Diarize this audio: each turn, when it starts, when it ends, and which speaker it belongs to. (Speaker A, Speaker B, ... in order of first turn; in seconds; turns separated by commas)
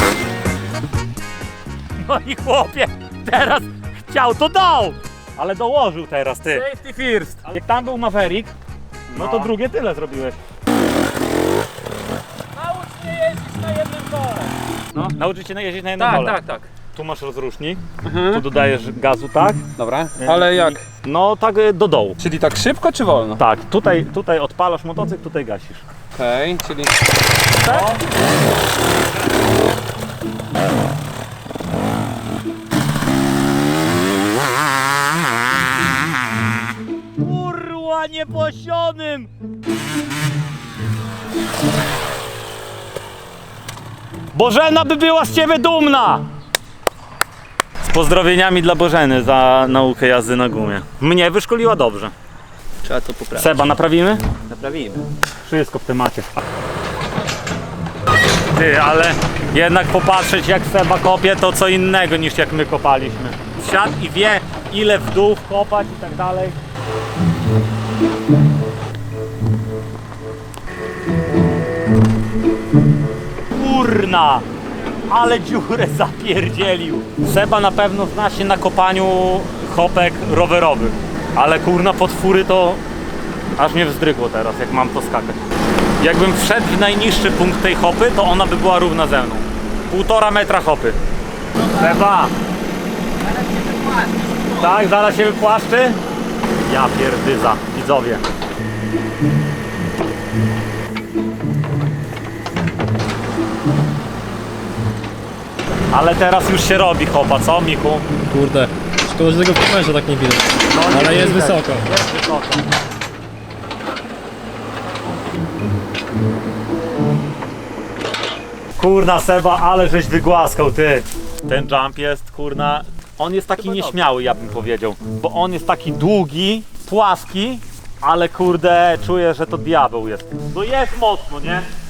Speaker A: 2.0-6.7, Speaker B: 6.5-7.4, Speaker A: 7.4-8.5, Speaker B: 9.1-9.5, Speaker A: 9.1-10.4, Speaker B: 12.5-15.1, Speaker A: 15.1-16.4, Speaker B: 16.0-16.7, Speaker A: 16.9-19.6, Speaker B: 18.0-18.4, Speaker B: 19.8-20.8, Speaker A: 20.2-22.2, Speaker B: 22.2-23.4, Speaker A: 23.4-25.8, Speaker B: 26.1-27.0, Speaker B: 27.6-27.9, Speaker A: 27.6-28.0, Speaker A: 37.2-39.3, Speaker A: 44.3-46.2, Speaker A: 47.8-52.1, Speaker A: 53.3-54.2, Speaker B: 54.5-55.0, Speaker A: 55.4-56.3, Speaker A: 58.5-66.5, Speaker A: 73.5-74.5, Speaker A: 75.1-82.8, Speaker A: 83.6-85.4, Speaker A: 86.0-91.0, Speaker A: 91.7-92.3, Speaker A: 94.5-96.0, Speaker A: 96.6-98.2, Speaker A: 105.9-108.1, Speaker C: 108.3-111.8, Speaker A: 110.7-112.7, Speaker A: 118.8-131.7